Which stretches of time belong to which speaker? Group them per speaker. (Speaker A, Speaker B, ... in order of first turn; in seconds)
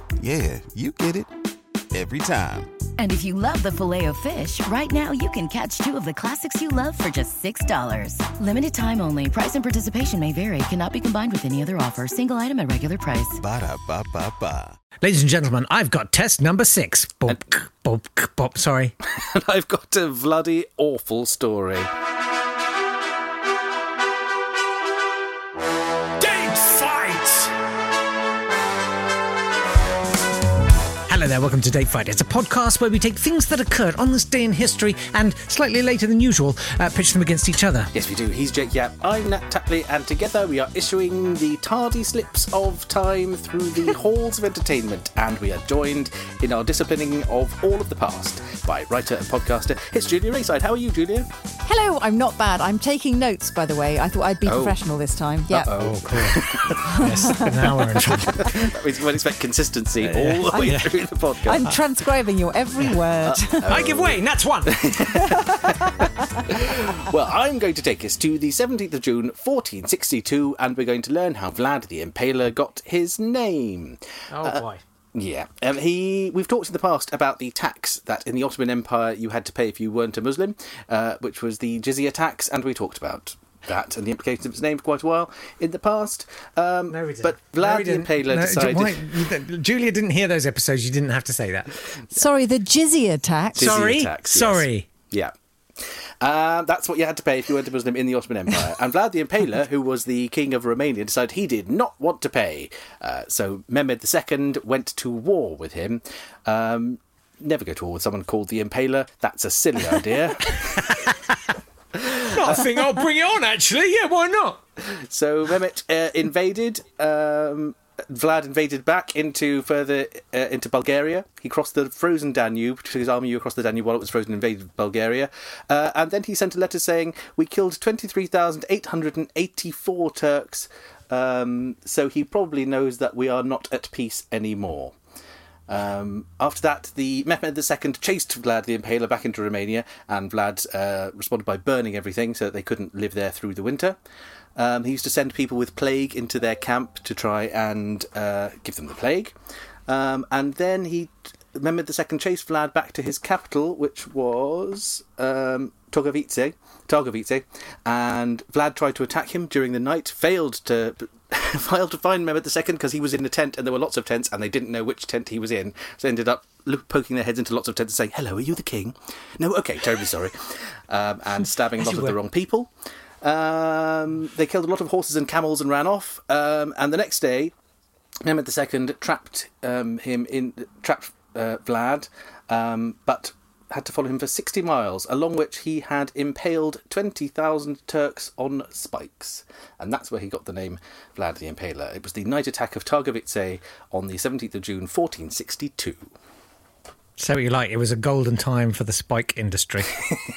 Speaker A: 0.2-1.3, 1.9-2.8, 13.4-14.8
Speaker B: 3.0-13.3
Speaker C: 15.0-18.9, 26.2-27.5, 31.1-37.9, 55.7-58.7, 60.0-60.9, 63.6-65.5, 74.3-74.8, 86.9-91.8, 93.6-94.9, 110.8-111.4, 112.1-114.6, 171.8-172.2, 197.2-200.1
Speaker D: 19.1-21.9, 37.9-51.3, 54.5-54.8, 55.5-56.8, 58.0-61.6, 63.2-65.8, 66.5-74.6, 75.2-89.1, 93.5-95.3, 96.2-110.9, 115.1-134.9, 135.7-144.0, 144.6-149.3, 149.9-172.7, 173.2-177.5, 178.2-196.1
Speaker E: 51.6-55.7, 56.9-57.5, 61.4-63.8, 65.2-66.1, 92.1-93.7